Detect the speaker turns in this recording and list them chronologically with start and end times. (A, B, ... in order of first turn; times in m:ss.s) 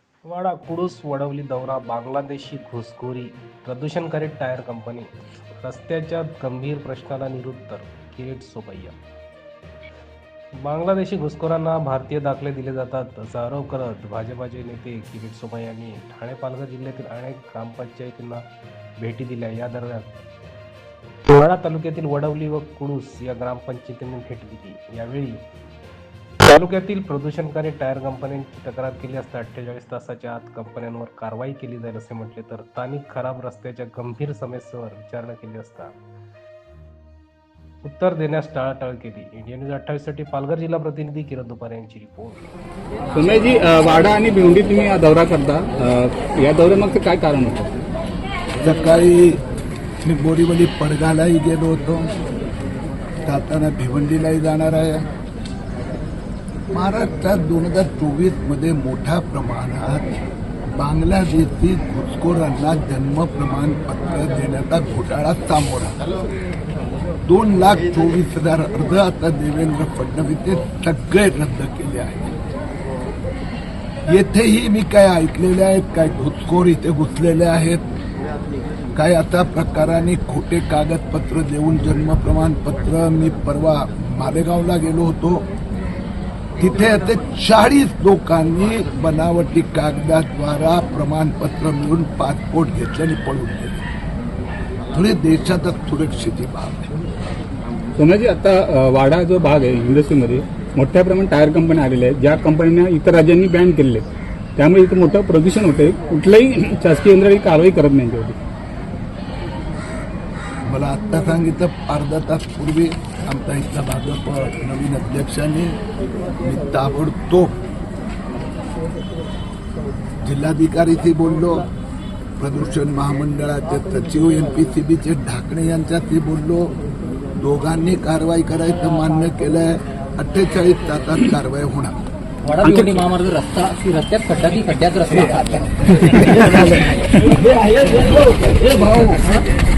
0:00.3-0:09.0 A
0:10.6-0:18.4 A
0:19.0-0:20.1 A
0:21.3-0:25.4 A
0:26.5-0:35.9 A
0:37.8-0:42.5 A
0:43.2-0:47.7 B
0:48.6-0:49.4 C
0:50.0-0:52.1 C
0:53.2-0:55.1 C
0:56.7-1:00.1 C
1:00.8-1:06.0 C
1:07.3-1:12.3 C
1:14.1-1:17.8 C
1:19.0-1:25.5 C
1:26.6-1:33.8 C
1:34.9-1:36.9 C
1:38.0-1:44.0 B
1:44.6-1:48.4 B
1:50.7-1:55.8 C
1:56.4-1:57.5 C
2:00.2-2:01.6 C
2:02.4-2:06.8 C
2:07.4-2:12.0 C
2:12.5-2:15.7 D
2:12.6-2:13.0 B
2:16.2-2:19.3 C